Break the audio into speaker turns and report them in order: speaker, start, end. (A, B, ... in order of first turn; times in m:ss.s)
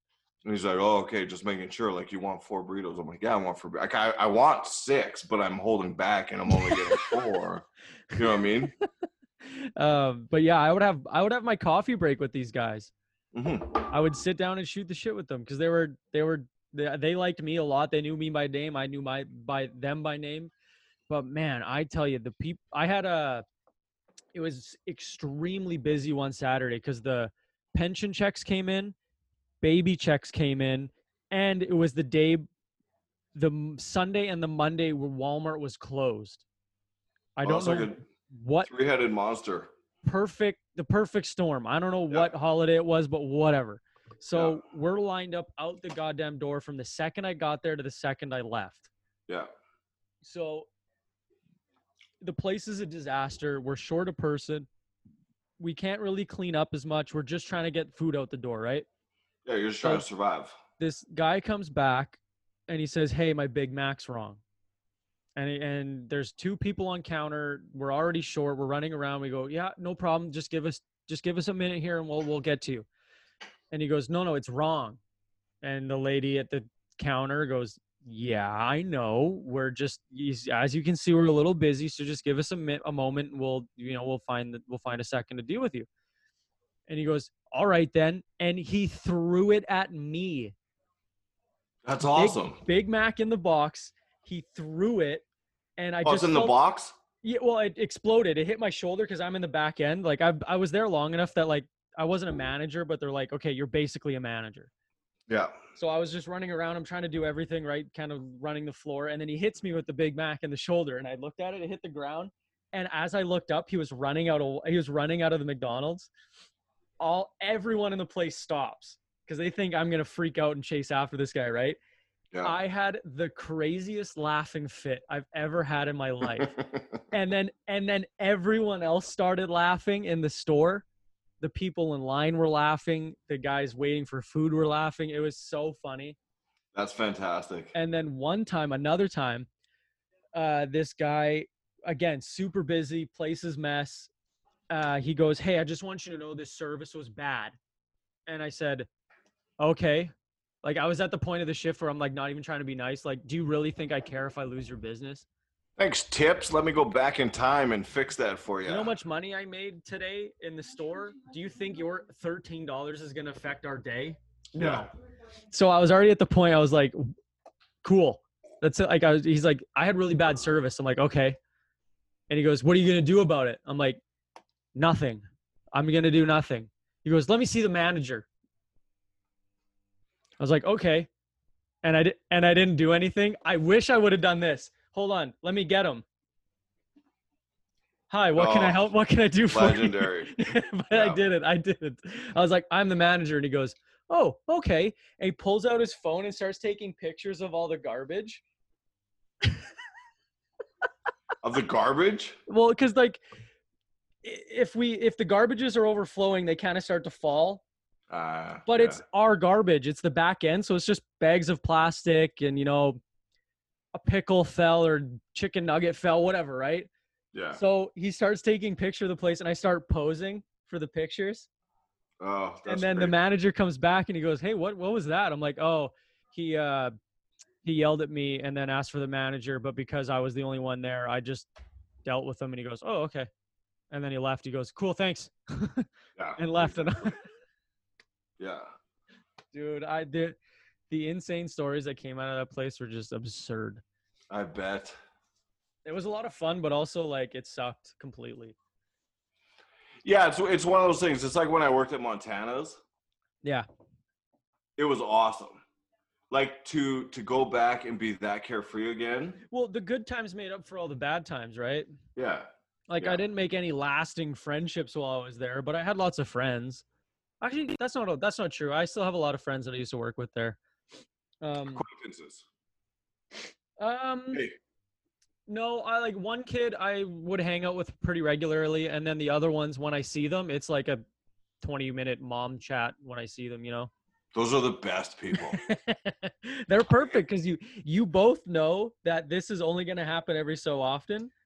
0:00.4-0:08.7 A
0:06.6-0:07.1 B
0:09.4-0:12.9 B
0:13.3-0:13.8 A
0:13.9-0:20.5 B
0:21.1-0:23.4 B
0:24.3-0:28.9 B
0:29.6-0:32.5 B
0:33.3-0:36.4 B
0:37.4-0:38.7 B
0:37.4-0:38.0 A
0:38.6-0:39.7 A
0:40.0-0:48.9 B
0:44.3-0:44.6 A
0:50.2-0:50.7 B
0:52.2-0:54.7 B
0:55.6-0:58.8 B
0:59.4-1:00.6 A
1:00.8-1:04.4 B
1:05.4-1:12.8 B
1:13.7-1:15.0 B
1:15.6-1:25.9 B
1:26.9-1:30.5 B
1:31.8-1:32.6 A
1:32.0-1:35.2 B
1:35.8-1:36.5 B
1:36.0-1:37.0 A
1:37.2-1:44.7 B
1:45.3-1:45.5 A
1:45.8-1:56.1 B
1:57.0-2:01.8 B
2:02.3-2:02.6 A
2:02.4-2:06.6 B
2:06.4-2:06.8 A
2:07.1-2:10.8 B
2:11.4-2:16.2 B
2:16.7-2:17.7 A
2:17.7-2:19.5 B
2:20.3-2:24.1 B
2:24.7-2:27.6 B
2:28.3-2:28.9 B
2:29.6-2:35.2 B
2:35.8-2:38.9 A
2:38.6-2:44.9 B
2:44.6-2:44.9 A
2:45.5-2:47.1 B
2:47.8-2:51.4 B
2:52.3-2:54.0 B
2:54.7-2:58.3 B
3:00.4-3:01.1 B
3:01.8-3:06.0 B
3:08.1-3:18.4 B
3:08.4-3:08.9 A
3:09.4-3:10.4 A
3:10.9-3:11.2 A
3:21.4-3:22.4 A
3:22.5-3:23.2 B
3:24.2-3:27.6 B
3:28.1-3:29.0 A
3:28.6-3:33.0 B
3:33.9-3:36.9 B
3:37.3-3:37.6 A
3:37.5-3:41.5 B
3:42.2-3:43.1 A
3:42.6-3:46.9 B
3:47.6-3:51.5 B
3:52.0-3:53.3 B
3:53.9-3:57.2 B
3:56.2-3:57.1 A
3:58.4-3:58.7 A
3:59.5-4:00.3 B
4:00.9-4:03.8 B
4:04.3-4:05.0 A
4:05.8-4:08.6 B
4:10.0-4:12.8 A
4:14.8-4:15.6 A
4:16.3-4:19.4 A
4:19.5-4:21.9 B
4:22.2-4:23.2 A
4:22.9-4:26.8 B
4:27.4-4:30.6 B
4:31.4-4:31.8 B
4:31.7-4:32.4 A
4:33.8-4:34.4 B
4:35.5-4:41.0 B
4:41.6-4:43.9 B
4:44.3-4:45.6 A
4:45.3-4:51.3 B